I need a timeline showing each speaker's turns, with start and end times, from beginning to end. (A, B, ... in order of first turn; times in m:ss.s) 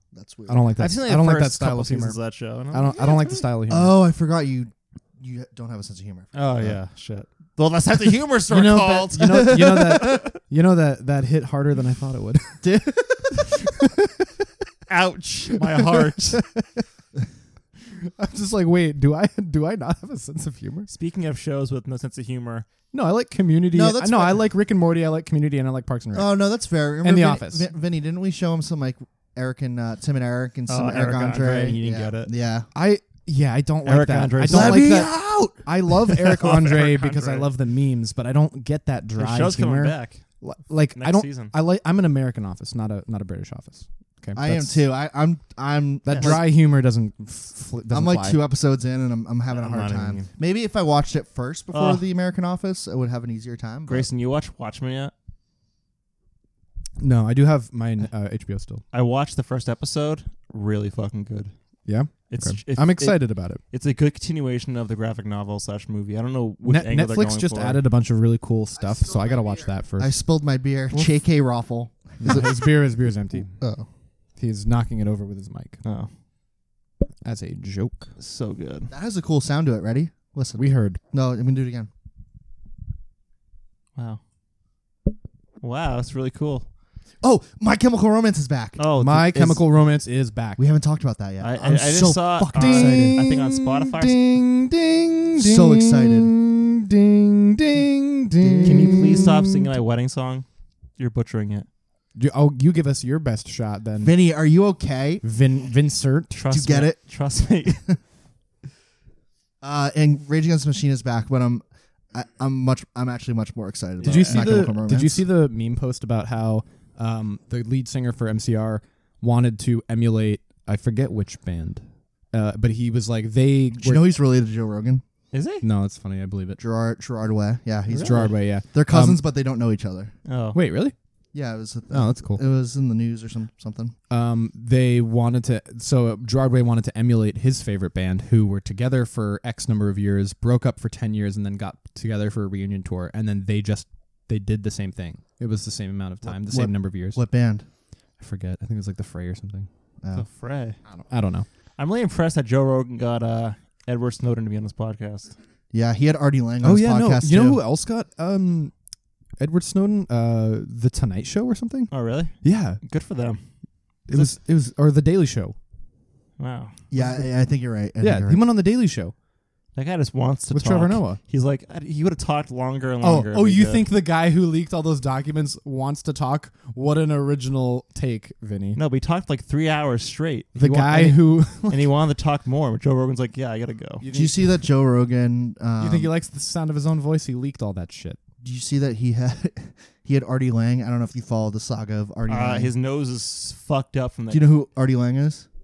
0:00.1-0:00.6 A
0:00.5-0:02.2 B
0:00.8-0:03.4 C
0:02.7-0:04.0 B
0:03.7-0:06.8 A
0:06.3-0:09.6 C
0:08.5-0:12.8 B
0:09.2-0:10.2 A
0:12.6-0:13.6 A
0:13.5-0:14.3 B
0:14.9-0:16.4 C
0:15.8-0:16.8 B
0:17.9-0:20.9 B
0:20.9-0:22.7 C
0:22.9-0:26.4 B
0:23.7-0:24.4 A
0:26.1-0:32.7 A
0:27.0-0:27.7 B
0:30.7-0:32.3 C
0:32.7-0:44.8 B
0:33.8-0:35.0 C
0:34.4-0:35.6 A
0:36.1-0:37.5 C
0:39.2-0:40.2 C
0:41.0-0:41.5 C
0:44.4-0:46.5 A
0:46.1-0:48.4 B
0:46.1-0:46.4 C
0:47.9-0:54.1 A
0:49.5-0:50.3 C
0:51.7-0:52.0 C
0:53.9-0:55.1 C
0:57.0-0:58.8 B
0:58.9-1:01.5 C
1:01.9-1:03.6 B
1:02.3-1:07.8 C
1:06.6-1:10.1 B
1:08.9-1:12.7 A
1:12.2-1:13.6 B
1:13.6-1:13.9 C
1:14.4-1:15.8 B
1:15.8-1:16.1 C
1:17.2-1:18.1 B
1:18.2-1:18.9 C
1:18.9-1:21.9 A
1:20.6-1:21.0 B
1:25.6-1:26.7 C
1:27.2-1:28.8 A
1:28.8-1:29.6 C
1:29.0-1:30.6 B
1:30.6-1:33.3 A
1:31.4-1:34.2 C
1:32.5-1:39.7 B
1:35.3-1:36.3 A
1:38.4-1:39.3 A
1:38.6-1:40.5 C
1:41.0-1:41.7 C
1:42.2-1:44.1 B
1:44.0-1:45.2 A
1:45.2-1:46.3 B
1:46.3-1:47.8 C
1:46.5-1:47.0 A
1:49.6-1:55.3 A
1:54.0-1:54.5 C
1:54.0-2:04.1 B
2:03.8-2:05.0 A
2:05.3-2:05.6 C
2:05.6-2:06.6 B
2:06.6-2:10.1 A
2:07.9-2:08.3 C
2:07.9-2:09.2 B
2:10.3-2:10.6 C
2:10.5-2:10.9 B
2:11.3-2:14.0 A
2:11.9-2:12.4 B
2:14.1-2:27.2 B
2:26.4-2:27.7 A
2:28.2-2:29.7 B
2:30.0-2:30.3 A
2:30.1-2:30.8 C
2:30.9-2:31.5 B
2:31.8-2:35.4 C
2:35.7-2:37.6 A
2:36.6-2:38.7 B
2:39.4-2:42.8 B
2:41.9-2:43.4 C
2:44.1-2:45.6 B
2:46.4-2:46.8 C
2:46.9-2:48.4 A
2:48.0-2:49.1 B
2:49.8-2:53.9 C
2:50.5-2:51.2 B
2:53.0-2:58.8 B
2:58.8-3:04.1 C
3:00.6-3:01.9 B
3:04.0-3:04.5 B
3:04.1-3:06.1 A
3:05.8-3:08.2 B
3:08.4-3:12.7 A
3:12.3-3:14.5 C
3:14.3-3:15.5 A